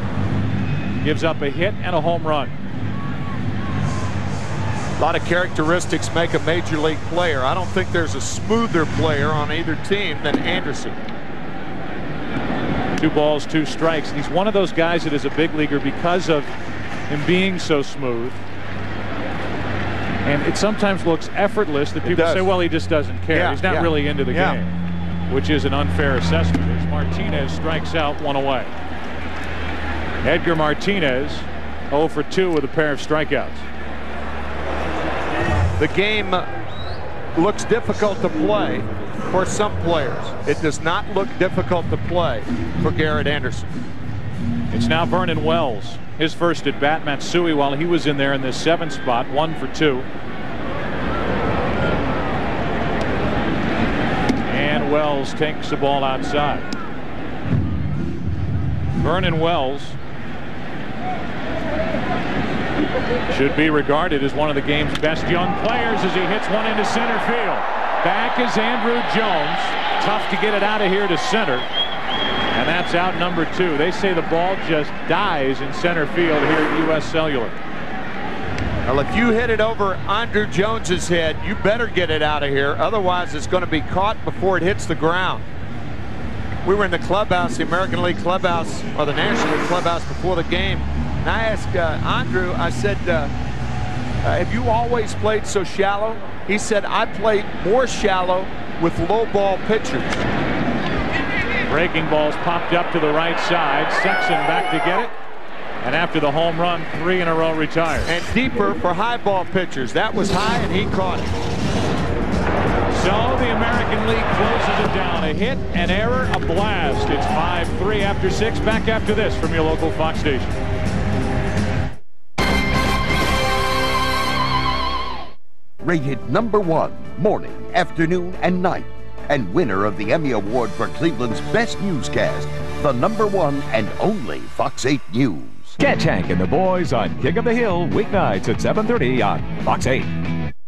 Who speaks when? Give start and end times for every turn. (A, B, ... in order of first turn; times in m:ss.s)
0:01.0-0:02.5 A
0:05.0-0:11.0 B
0:13.0-0:16.5 A
0:17.1-0:18.4 A
0:20.2-0:24.7 A
0:22.0-0:22.6 B
0:23.3-0:24.6 B
0:25.3-0:28.7 A
0:30.2-0:33.6 A
0:35.8-0:36.5 B
0:37.4-0:43.8 B
0:44.7-0:50.1 A
0:54.4-0:56.7 A
0:59.0-1:00.0 A
1:03.3-1:11.7 A
1:12.5-1:17.6 A
1:18.8-1:25.4 B
1:26.6-1:33.3 B
1:34.2-1:40.2 B
1:41.7-1:45.1 A
1:45.8-1:48.1 A
1:48.0-1:51.3 B
1:52.9-2:00.6 A
2:05.8-2:15.8 C
2:15.8-2:20.1 D